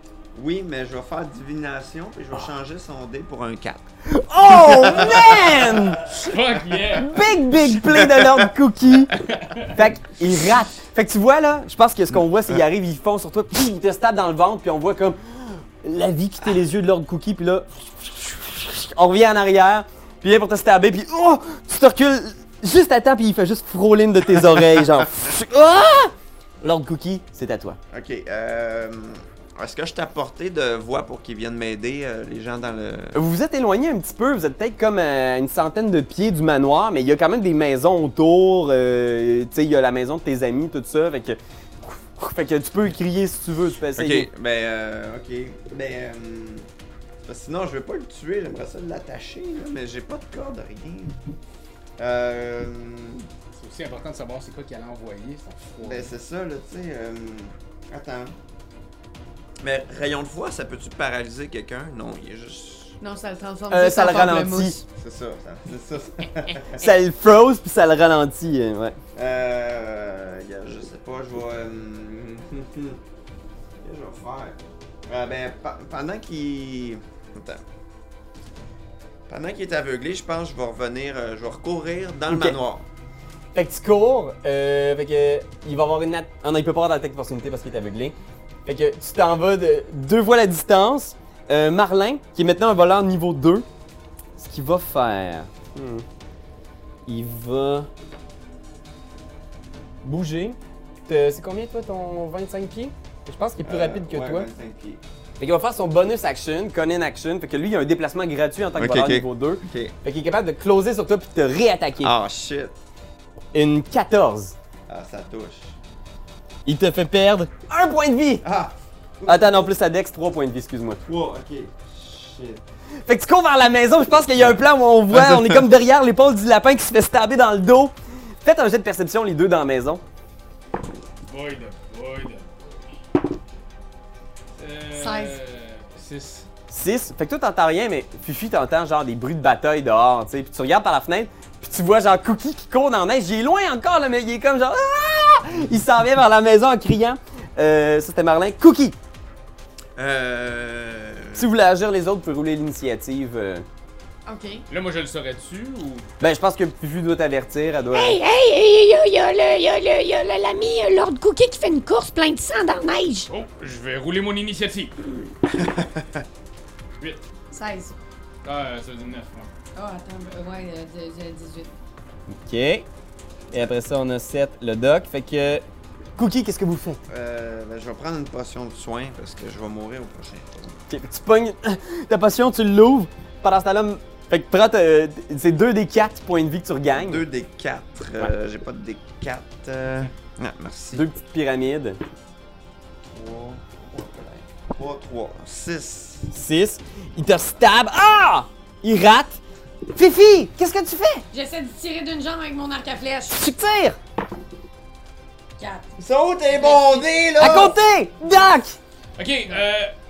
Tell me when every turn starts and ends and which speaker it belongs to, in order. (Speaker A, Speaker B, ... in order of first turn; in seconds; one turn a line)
Speaker A: 0.3-3.8
Speaker B: 4.0-6.0
Speaker A: 4.5-5.8
Speaker C: 6.0-7.2
Speaker B: 7.0-9.2
Speaker A: 7.5-8.5
Speaker C: 9.3-9.7
Speaker B: 9.7-27.8
Speaker A: 24.4-25.0
Speaker A: 27.9-33.2
Speaker B: 33.1-44.3
Speaker A: 43.9-46.7
Speaker A: 47.2-51.2
Speaker A: 52.0-53.3
Speaker C: 53.5-56.1
Speaker A: 55.8-58.4
Speaker A: 59.6-63.0
Speaker D: 63.0-64.8
Speaker B: 63.7-64.8
Speaker A: 65.0-66.9
Speaker B: 66.8-69.0
Speaker A: 69.2-73.0
Speaker A: 73.8-77.6
Speaker A: 79.3-82.9
Speaker B: 82.3-82.6
Speaker B: 83.5-88.2
Speaker B: 88.7-93.7
Speaker B: 94.4-96.0
Speaker B: 97.1-97.9
Speaker B: 100.0-104.5
Speaker A: 103.6-105.0
Speaker B: 105.4-112.2
Speaker A: 108.8-109.9
Speaker A: 112.0-112.8
Speaker B: 113.5-114.6
Speaker A: 114.9-115.8
Speaker B: 116.7-118.5
Speaker A: 118.4-119.7
Speaker B: 119.3-121.0
Speaker A: 121.1-122.6
Speaker B: 123.0-130.0
Speaker A: 125.1-125.7
Speaker C: 131.3-133.0
Speaker C: 134.6-136.5
Speaker D: 134.9-135.4
Speaker B: 136.7-149.0
Speaker A: 150.0-151.5
Speaker B: 151.3-153.7
Speaker D: 154.3-154.7
Speaker C: 154.7-156.1
Speaker B: 156.2-158.2
Speaker E: 157.9-163.3
Speaker C: 163.3-165.0
Speaker A: 165.6-166.2
Speaker D: 167.5-168.0
Speaker C: 168.4-169.5
Speaker D: 169.8-171.7
Speaker B: 172.3-172.9
Speaker B: 173.5-175.7
Speaker B: 176.2-177.0
Speaker A: 177.1-180.8
Speaker B: 180.9-187.2
Speaker A: 186.9-191.1
Speaker B: 190.9-192.0
Speaker A: 193.1-196.3
Speaker B: 196.3-199.4
Speaker B: 199.9-201.3
Speaker D: 201.3-203.4
Speaker B: 203.3-204.0
Speaker D: 205.6-205.9
Speaker A: 206.0-207.8
Speaker D: 206.5-207.1
Speaker B: 207.4-208.8
Speaker C: 209.2-209.9